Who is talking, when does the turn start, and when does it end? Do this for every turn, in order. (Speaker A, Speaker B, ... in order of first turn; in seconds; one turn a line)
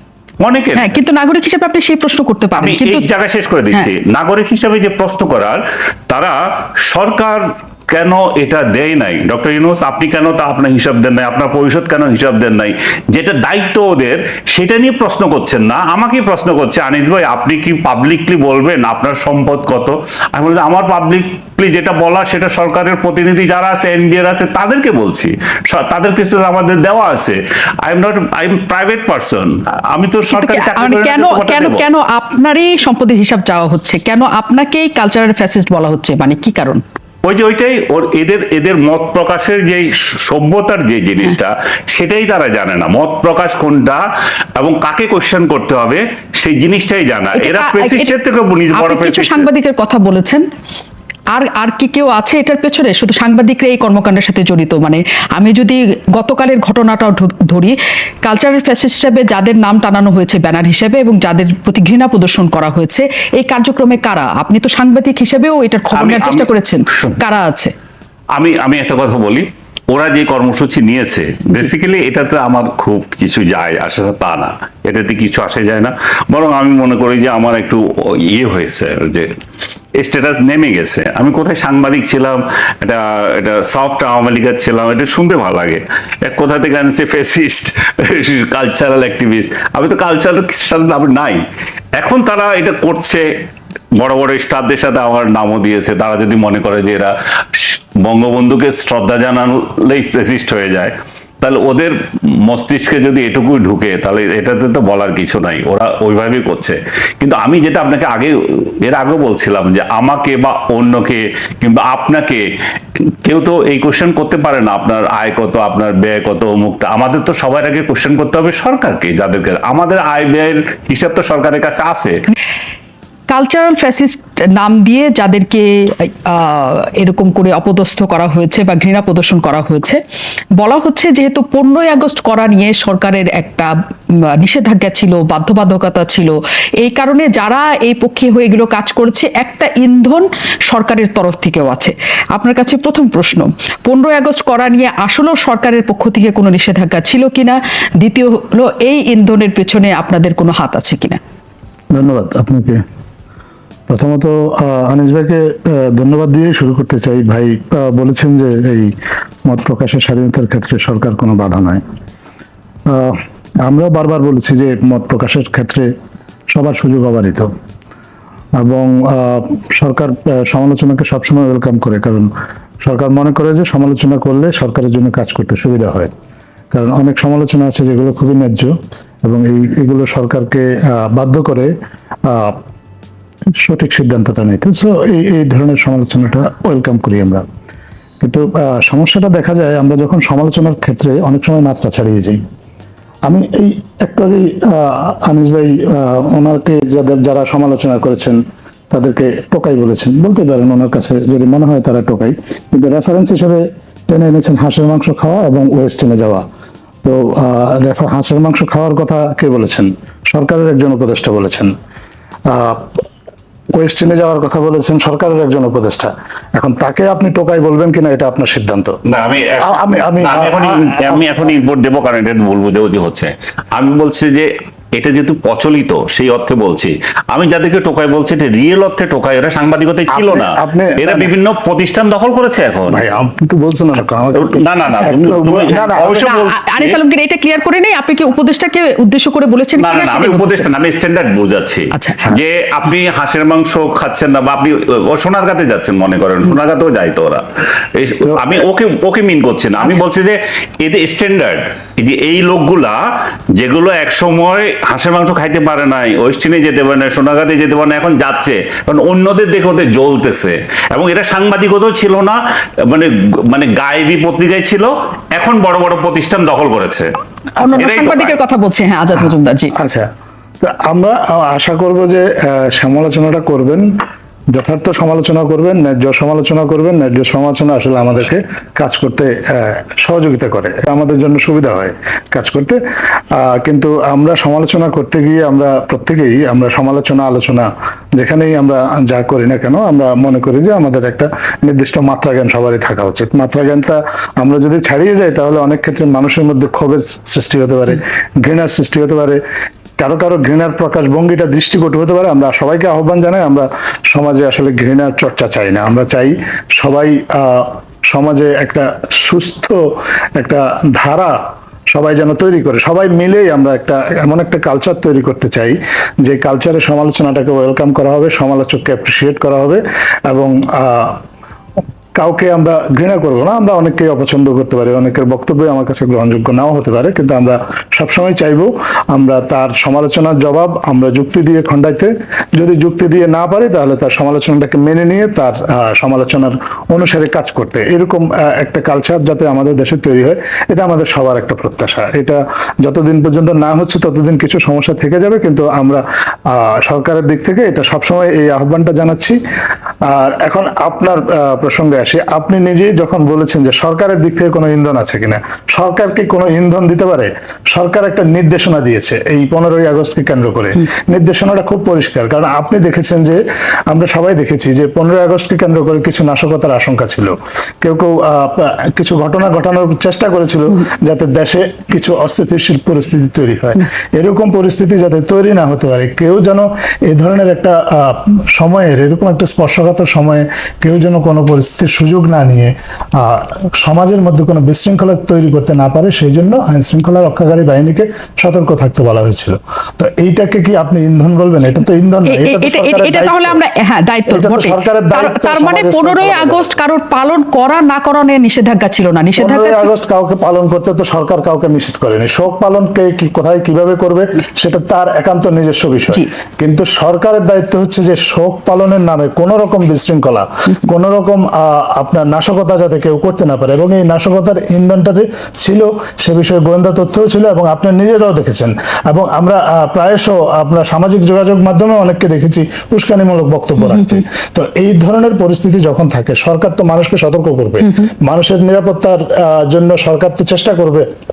Speaker A: 0.4-1.0
Speaker B: 0.8-3.1
Speaker A: 2.6-31.9
Speaker B: 30.3-36.8
Speaker A: 37.2-44.0
Speaker A: 44.6-49.5
Speaker B: 47.4-48.1
Speaker B: 48.8-50.4
Speaker B: 51.3-67.7
Speaker A: 66.0-67.2
Speaker A: 68.3-79.3
Speaker A: 80.0-91.5
Speaker A: 92.0-93.3
Speaker A: 94.0-112.5
Speaker A: 113.2-122.2
Speaker B: 123.3-130.0
Speaker B: 130.6-151.2
Speaker C: 151.9-152.8
Speaker C: 153.9-158.9
Speaker C: 159.4-161.8
Speaker C: 162.9-165.9
Speaker C: 166.5-167.5
Speaker C: 168.6-172.3
Speaker C: 172.8-176.1
Speaker C: 176.7-181.7
Speaker C: 182.2-182.6
Speaker C: 183.6-187.4
Speaker C: 188.2-192.4
Speaker C: 193.3-206.5
Speaker C: 207.0-211.7
Speaker C: 212.5-213.0
Speaker C: 213.7-219.0
Speaker A: 219.1-233.0
Speaker C: 219.6-221.5
Speaker C: 230.1-231.3
Speaker C: 232.9-236.2
Speaker A: 234.3-237.0
Speaker B: 235.8-240.7
Speaker A: 239.8-267.1
Speaker B: 241.9-242.2
Speaker B: 267.6-269.8
Speaker A: 267.6-268.4
Speaker C: 269.2-273.9
Speaker C: 274.5-282.8
Speaker C: 283.3-299.4
Speaker C: 300.0-309.8
Speaker C: 310.4-321.2
Speaker C: 322.2-349.4
Speaker C: 350.1-393.6
Speaker B: 392.3-399.9
Speaker C: 394.3-396.7
Speaker C: 399.4-431.1
Speaker B: 423.8-424.2